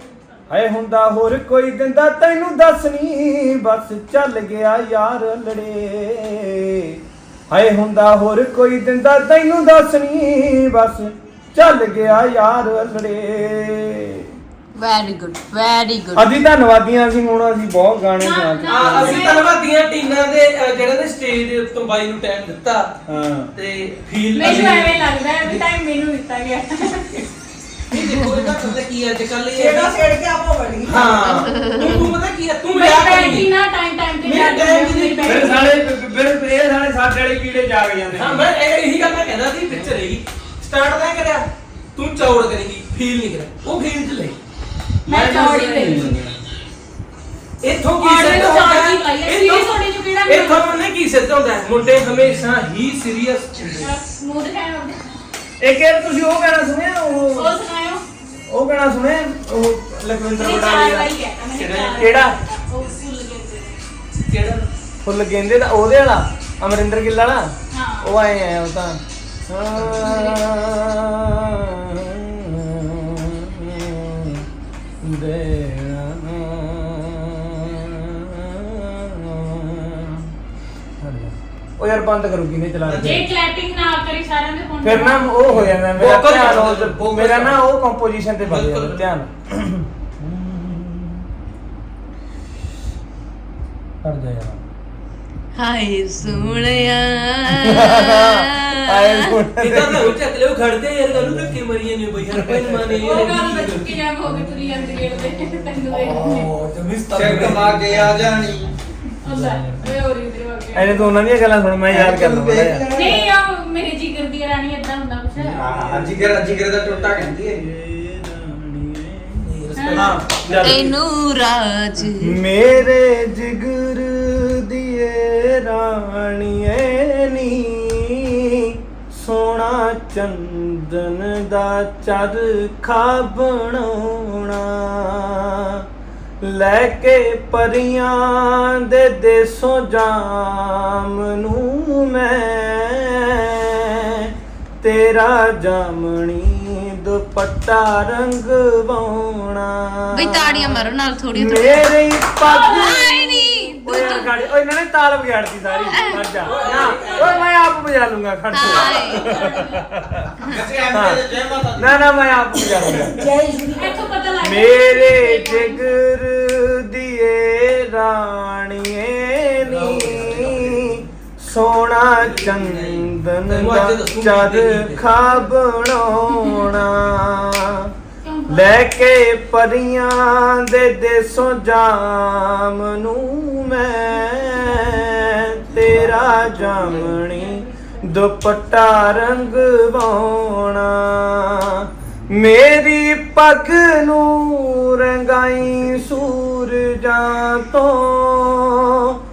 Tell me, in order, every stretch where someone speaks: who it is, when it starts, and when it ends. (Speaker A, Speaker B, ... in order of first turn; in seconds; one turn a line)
Speaker A: 0.5-14.3
Speaker B: 14.8-16.3
Speaker A: 16.2-19.3
Speaker C: 18.2-19.5
Speaker D: 18.7-22.9
Speaker A: 23.1-23.5
Speaker D: 23.5-25.6
Speaker C: 24.3-27.2
Speaker D: 27.9-30.2
Speaker E: 29.6-31.0
Speaker D: 30.8-33.5
Speaker A: 30.9-31.5
Speaker B: 31.3-32.0
Speaker C: 32.7-35.7
Speaker D: 34.2-35.6
Speaker A: 35.2-38.5
Speaker D: 38.1-44.4
Speaker C: 45.1-46.1
Speaker A: 45.1-46.4
Speaker D: 47.6-53.9
Speaker C: 48.0-50.7
Speaker C: 53.8-55.2
Speaker A: 55.6-57.6
Speaker C: 57.4-58.0
Speaker A: 58.5-61.1
Speaker C: 60.4-63.8
Speaker A: 62.0-62.4
Speaker D: 64.3-64.7
Speaker A: 65.0-74.5
Speaker C: 67.7-68.1
Speaker C: 69.9-70.4
Speaker A: 75.0-80.3
Speaker A: 81.0-83.2
Speaker D: 82.9-83.2
Speaker C: 83.0-85.3
Speaker A: 84.8-91.2
Speaker D: 85.5-87.7
Speaker D: 88.4-89.1
Speaker D: 94.0-94.6
Speaker B: 95.6-99.3
Speaker A: 97.7-100.1
Speaker D: 99.6-104.0
Speaker A: 102.3-102.7
Speaker C: 103.0-106.5
Speaker A: 104.3-105.6
Speaker D: 106.3-108.2
Speaker F: 107.1-108.7
Speaker C: 109.2-111.1
Speaker D: 109.4-109.8
Speaker A: 110.7-112.8
Speaker F: 111.9-113.3
Speaker C: 112.9-115.8
Speaker F: 115.4-117.6
Speaker A: 115.8-119.4
Speaker D: 119.4-120.8
Speaker C: 119.8-120.2
Speaker A: 120.0-120.9
Speaker B: 120.6-122.3
Speaker A: 122.2-135.8
Speaker A: 136.4-160.2
Speaker B: 150.1-154.3
Speaker B: 155.9-156.2
Speaker C: 156.4-157.4
Speaker D: 156.4-157.5
Speaker B: 158.5-159.3
Speaker C: 159.1-159.8
Speaker F: 160.5-162.1
Speaker A: 160.9-161.2
Speaker A: 161.8-163.2
Speaker E: 163.2-163.9
Speaker C: 163.8-166.0
Speaker A: 164.4-177.9
Speaker D: 169.6-171.0
Speaker D: 172.2-175.2
Speaker C: 178.2-178.9
Speaker A: 178.5-199.2
Speaker C: 187.1-188.1